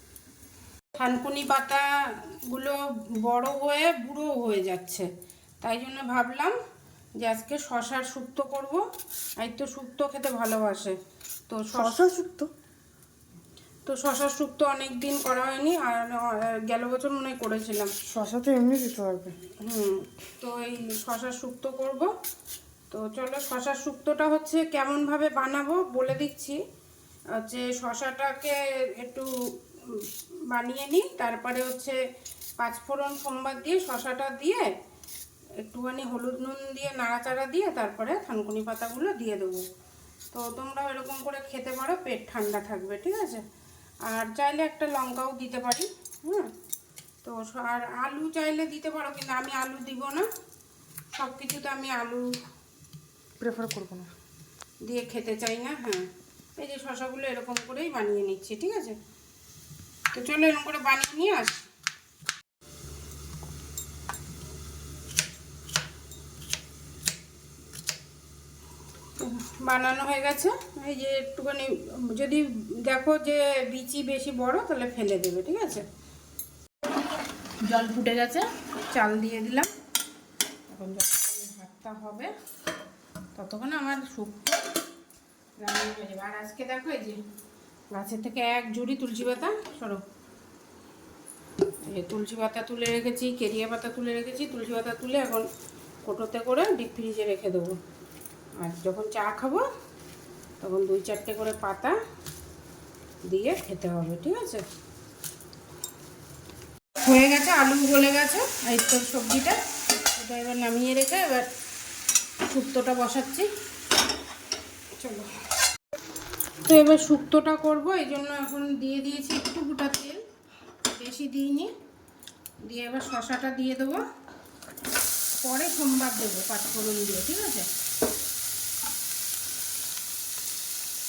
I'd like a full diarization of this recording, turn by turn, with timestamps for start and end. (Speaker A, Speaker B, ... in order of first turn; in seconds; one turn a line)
Speaker A: 1.0-1.9
Speaker A: 2.5-5.1
Speaker A: 5.6-6.5
Speaker A: 7.2-8.8
Speaker A: 9.4-11.0
Speaker A: 11.5-12.0
Speaker B: 11.7-12.5
Speaker A: 13.9-17.9
Speaker B: 18.1-19.4
Speaker A: 19.6-22.1
Speaker A: 22.9-26.6
Speaker A: 27.4-29.3
Speaker A: 29.9-32.0
Speaker A: 32.6-34.7
Speaker A: 35.6-39.6
Speaker A: 40.3-43.5
Speaker A: 44.1-46.5
Speaker A: 47.2-50.3
Speaker A: 51.1-52.3
Speaker B: 53.4-54.1
Speaker A: 54.9-59.0
Speaker A: 60.1-61.7
Speaker A: 69.2-75.8
Speaker A: 77.7-79.7
Speaker A: 80.7-82.3
Speaker A: 83.3-84.7
Speaker A: 85.6-87.2
Speaker A: 87.9-90.0
Speaker A: 91.8-95.5
Speaker A: 96.0-97.8
Speaker A: 98.6-99.7
Speaker A: 100.6-102.0
Speaker A: 103.3-104.7
Speaker A: 107.0-109.6
Speaker A: 110.1-111.5
Speaker A: 112.5-113.5
Speaker A: 115.0-115.3
Speaker A: 116.7-120.2
Speaker A: 120.9-121.7
Speaker A: 122.7-124.0
Speaker A: 125.4-127.7